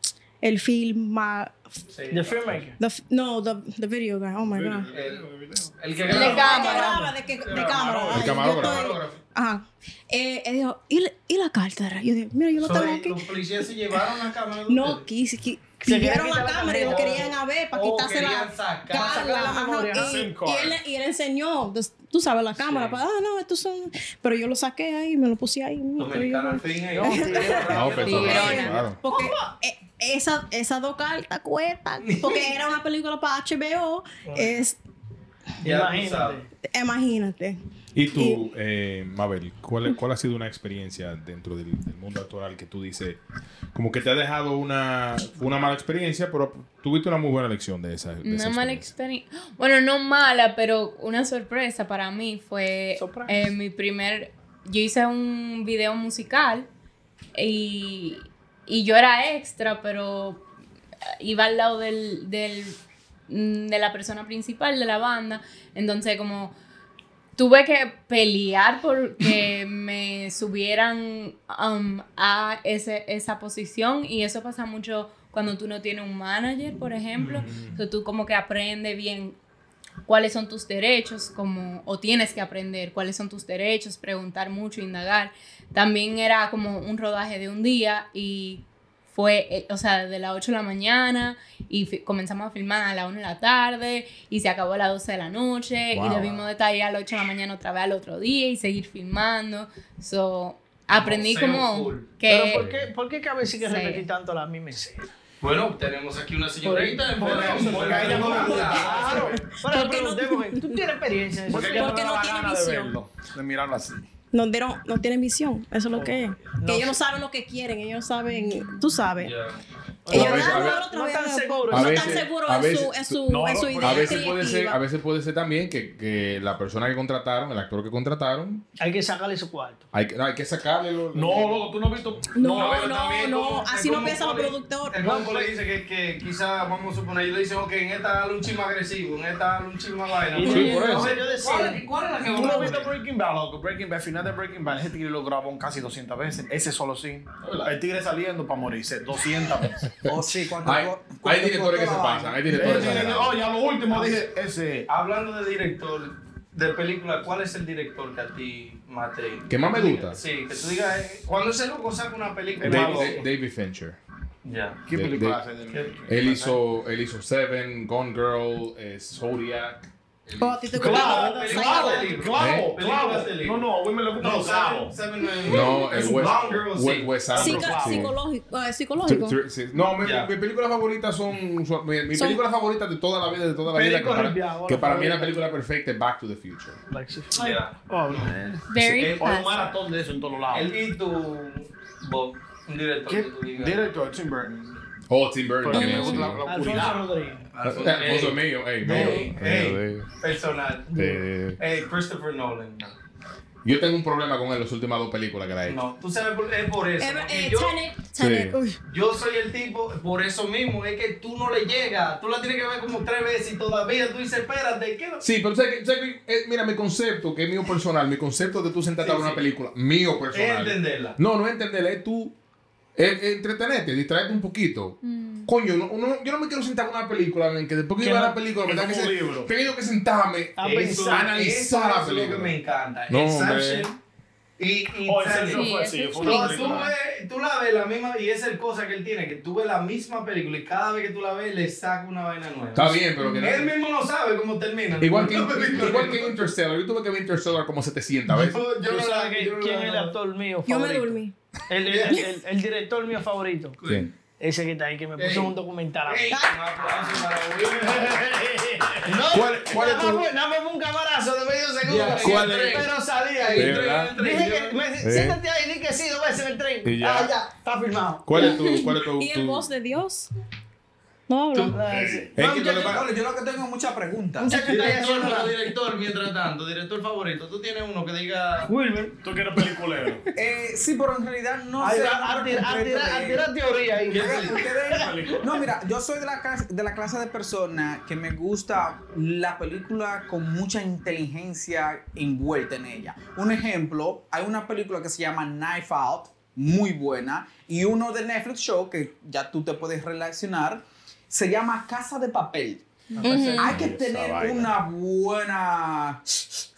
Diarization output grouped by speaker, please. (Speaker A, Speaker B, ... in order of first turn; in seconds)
Speaker A: 0.4-1.7, 2.8-4.9, 6.0-13.3, 14.7-34.8, 36.6-37.6, 38.1-38.5, 109.2-110.8, 111.7-112.9, 114.3-119.3, 120.1-124.8, 132.3-135.0, 170.4-172.1, 177.4-179.4, 182.1-182.4, 207.0-208.8, 250.7-251.3, 256.3-256.6, 268.4-270.3, 271.3-271.8, 303.2-303.7
Speaker B: 1.9-2.6, 4.9-9.2, 12.6-15.1, 16.7-19.5, 26.0-28.8, 32.0-32.5, 35.6-36.4, 100.9-102.1, 105.4-109.5, 119.2-119.6, 132.5-142.9, 154.9-163.2, 164.4-164.8, 165.7-166.0, 170.8-177.6, 180.0-180.3, 187.3-188.3, 188.9-189.2, 190.5-193.8, 197.5-200.9, 201.6-203.0, 205.7-207.8, 208.9-215.2, 219.0-219.4, 220.3-221.2, 230.6-234.0, 234.6-246.5, 248.3-250.2, 251.9-252.2, 253.8-254.1, 255.2-255.5, 256.1-258.3, 261.8-264.8, 271.5-271.8, 272.4-273.0, 274.6-278.7, 284.1-284.8
Speaker C: 2.1-2.8, 15.8-17.3, 18.9-20.2, 27.0-28.4, 34.2-34.6, 35.6-36.5, 53.0-53.4, 102.3-105.1, 106.6-112.1, 115.9-117.0, 120.0-122.3, 128.8-129.8, 135.0-135.5, 140.3-141.9, 142.4-142.7, 170.9-171.2, 183.7-185.4, 186.9-187.4, 196.4-197.5, 198.9-199.2, 200.9-201.2, 228.0-228.4, 230.6-231.3, 248.9-251.2, 251.7-253.8, 254.4-256.4, 259.0-268.4, 271.7-272.4, 274.4-275.5, 278.7-279.2, 281.8-285.4, 303.2-303.6
Speaker D: 4.5-5.7, 19.9-20.8, 107.2-109.4, 111.5-114.1, 123.3-124.4, 131.1-132.9, 142.2-149.9, 152.5-154.9, 162.6-163.2, 164.9-166.6, 170.8-175.0, 175.5-176.6, 177.3-178.1, 187.9-190.8, 193.1-194.8, 195.6-197.2, 228.7-229.5, 235.1-236.9, 257.9-259.1, 279.2-280.3, 284.9-285.6
Speaker E: 6.1-7.0, 28.0-28.8, 48.2-56.7, 57.4-60.5, 61.2-66.5, 67.4-79.4, 80.1-102.7, 103.6-104.0, 188.7-189.7, 195.7-196.4, 225.0-225.5, 235.4-236.9, 303.1-303.4
Speaker F: 8.1-8.9, 27.7-29.0, 37.9-43.2, 43.7-48.9, 77.3-77.8, 95.9-96.5, 102.6-102.8, 120.1-120.8, 121.7-123.2, 123.8-128.6, 129.9-131.7, 140.4-141.2, 147.4-147.7, 150.0-153.4, 159.5-160.2, 162.6-164.0, 164.9-165.4, 166.1-170.6, 172.4-172.7, 175.4-178.1, 179.0-186.8, 195.1-196.5, 197.6-200.1, 200.9-201.6, 203.6-205.8, 208.2-208.6, 215.2-222.3, 223.0-232.5, 233.1-233.9, 242.8-243.7, 245.0-248.6, 259.3-260.3, 262.2-262.8, 263.6-264.1, 265.0-265.4, 266.8-267.3, 268.3-269.7, 272.4-273.1, 303.6-304.8
Speaker G: 150.1-152.7, 272.4-274.6, 280.4-283.5, 284.1-302.8, 303.6-306.2